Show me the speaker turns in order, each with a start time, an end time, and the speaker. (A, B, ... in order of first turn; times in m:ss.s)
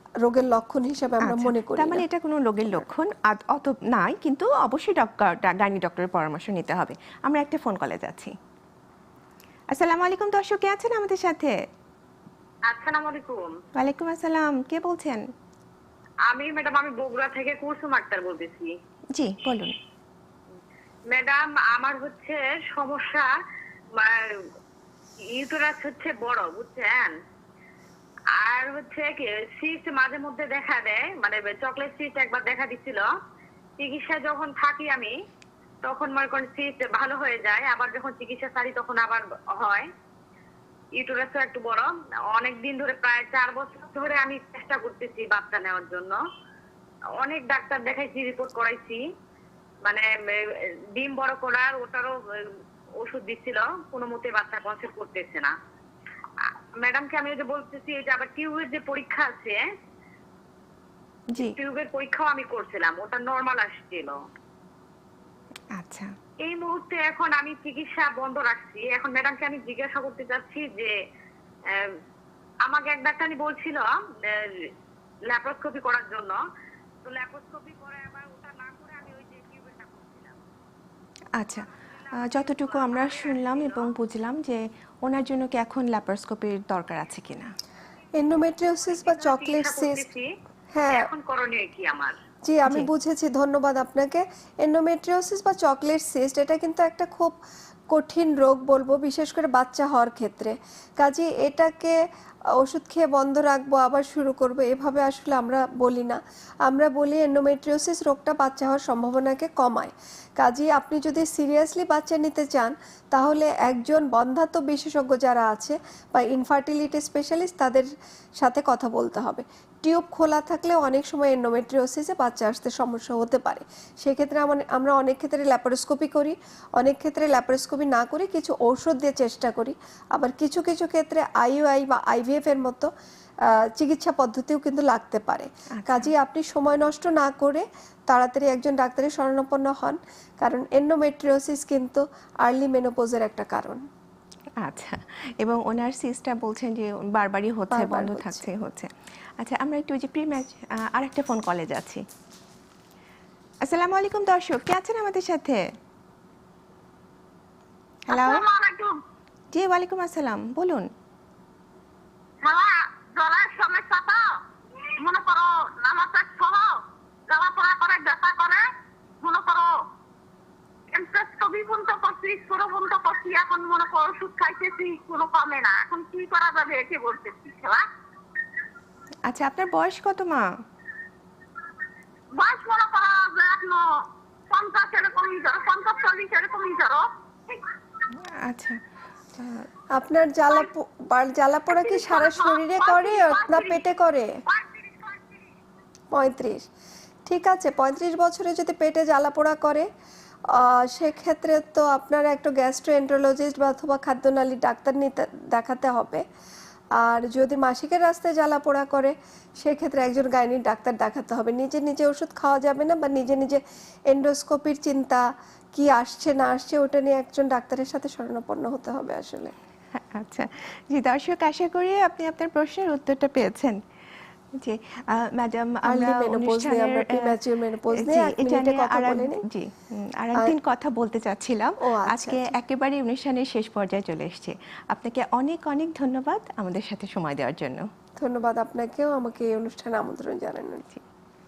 0:00.2-0:02.0 A
0:01.2-0:08.3 B
0:09.7-0:11.6 B
0:12.7-0:13.6 C
0:13.8-0:15.2 B
0:16.3-0:18.7 C
0:19.1-0:19.8 B
0:21.1-0:23.3 C
0:23.9-0:24.3 C
0:25.3-0:27.1 C
0:28.4-0:33.1 C
0:33.8-0:35.1 C
0:35.8-0:39.9 C
0:41.0-0:46.2 C
0:47.2-0:49.0 C
0:49.8-0:55.5 C
0:56.4-0:59.6 C
1:01.4-1:04.2 C
1:05.8-1:06.1 B
1:06.4-1:10.9 C
1:11.7-1:12.0 C
1:12.6-1:14.7 C
1:15.3-1:16.4 C
1:17.0-1:20.4 C
1:21.4-1:27.5 B
1:21.5-1:23.9 C
1:28.2-1:30.1 A
1:28.8-1:30.3 C
1:30.7-1:31.1 A
1:30.9-1:32.2 C
1:32.4-1:37.4 A
1:37.9-1:42.0 A
1:42.6-1:57.8 A
1:58.4-2:12.9 A
2:13.8-2:23.8 A
2:15.8-2:16.1 B
2:24.6-2:32.0 B
2:27.7-2:28.4 A
2:33.6-2:35.6 B
2:38.1-2:38.5 B
2:38.1-2:38.9 C
2:39.5-2:40.9 B
2:42.4-2:44.3 C
2:45.0-2:48.6 C
2:49.2-2:49.8 C
2:50.9-2:57.8 C
2:59.3-3:00.4 B
3:02.4-3:03.8 C
3:04.5-3:07.6 C
3:08.4-3:08.8 B
3:09.4-3:09.7 B
3:09.9-3:14.3 A
3:11.7-3:13.8 C
3:14.5-3:15.3 C
3:16.1-3:16.7 A
3:17.3-3:19.9 A
3:20.5-3:26.2 A
3:27.0-3:39.5 A
3:40.0-3:43.8 B
3:44.6-3:47.3 B
3:45.9-3:49.4 A
3:48.0-3:57.9 B
3:51.8-3:52.5 A
3:58.2-4:00.9 A